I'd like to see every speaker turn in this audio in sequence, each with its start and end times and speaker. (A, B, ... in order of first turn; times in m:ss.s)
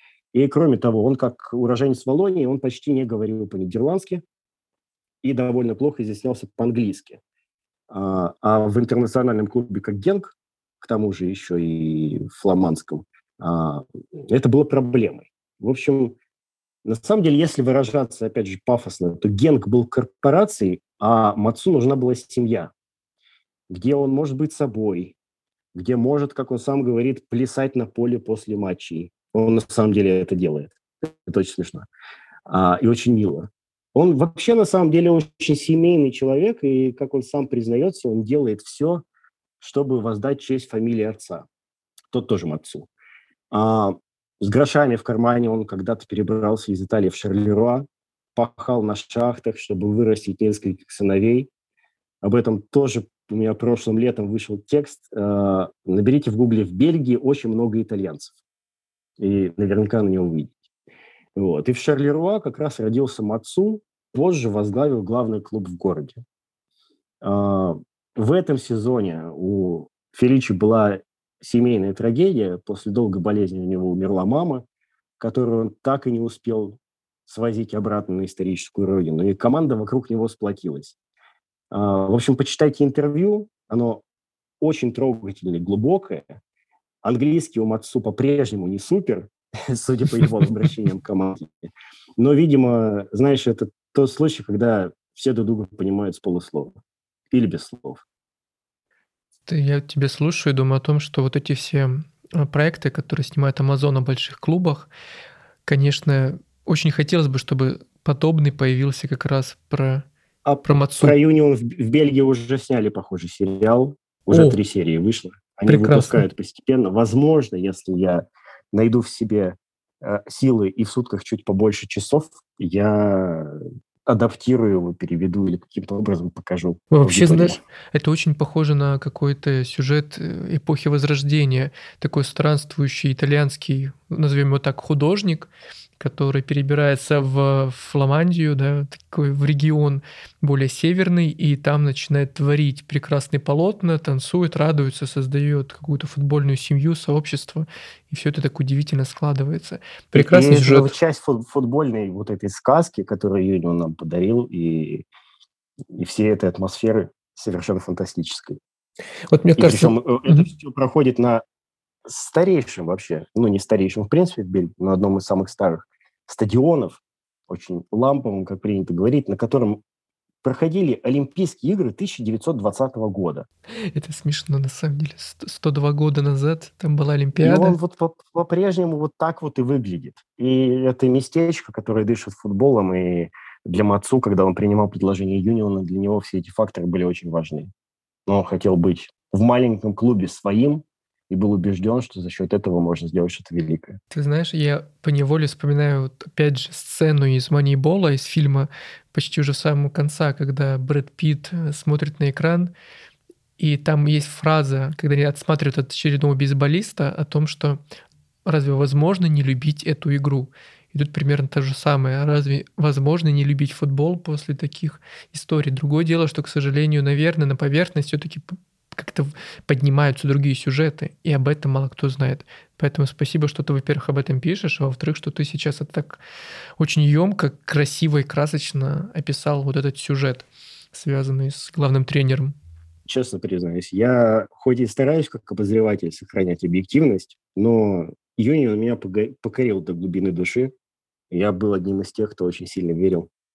0:00.3-0:04.2 A
0:05.2-0:07.2 A
0:07.9-0:16.2 A
0:16.8-0:22.7 A
0:23.7-0:25.1 A
0:25.7-0:31.9 A
0:32.5-0:39.0 A
0:39.6-0:41.5 A
0:42.1-0:42.9 A
0:43.5-0:51.5 A
0:52.2-0:58.4 A
0:59.2-1:00.6 A
1:01.3-1:06.2 A
1:07.2-1:14.6 A
1:15.2-1:21.0 A
1:21.7-1:24.0 A
1:24.6-1:26.4 A
1:27.0-1:31.6 A
1:32.2-1:36.7 A
1:37.3-1:38.0 A
1:39.5-1:44.9 B
1:45.6-1:50.1 B
1:50.4-2:07.6 A
1:50.6-1:51.2 B
1:54.3-1:54.6 B
1:55.7-1:56.2 B
2:06.9-2:30.9 B
2:30.1-2:35.0 A
2:35.9-2:38.6 A
2:39.3-2:40.5 B
2:39.6-2:41.4 A
2:42.0-2:49.8 A
2:50.4-2:53.4 A
2:53.9-2:57.8 B
2:57.4-3:07.7 A
3:08.3-3:14.0 A
3:14.1-3:22.7 B
3:23.6-3:27.8 B
3:28.4-3:46.2 B
3:46.8-3:52.5 B
3:53.0-4:00.7 A
4:01.3-4:03.3 A